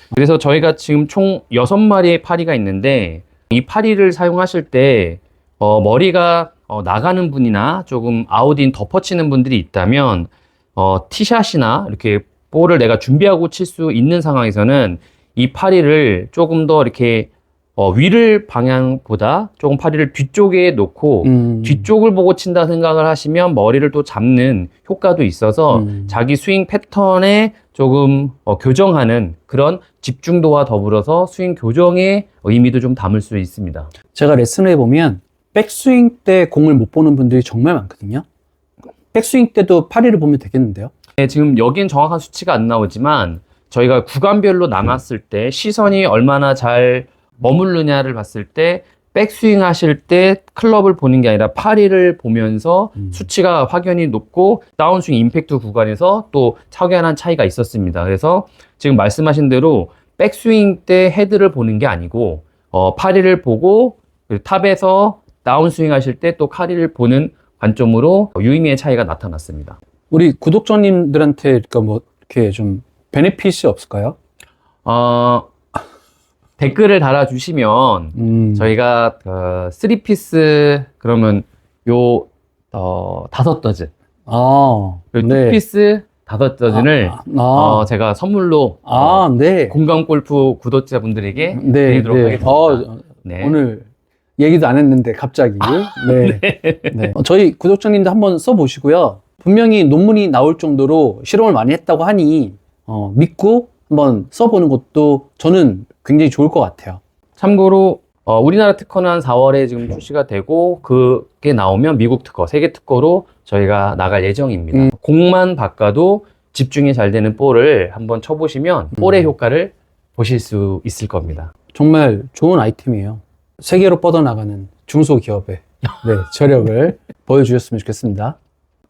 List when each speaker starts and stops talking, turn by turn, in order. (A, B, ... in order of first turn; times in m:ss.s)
0:00.1-0:33.9 A
0:21.2-0:21.9 B
0:25.7-0:26.2 B
0:34.1-0:38.2 B
0:39.1-0:40.9 B
0:41.2-1:09.8 A
1:10.1-1:14.2 B
1:14.8-1:15.5 A
1:16.6-1:23.9 A
1:18.2-1:18.7 B
1:24.3-1:25.6 B
1:25.1-1:33.6 A
1:26.7-1:27.9 B
1:28.9-1:29.8 B
1:31.5-1:47.0 B
1:35.6-1:37.1 A
1:47.4-2:01.5 A
2:01.7-2:08.4 B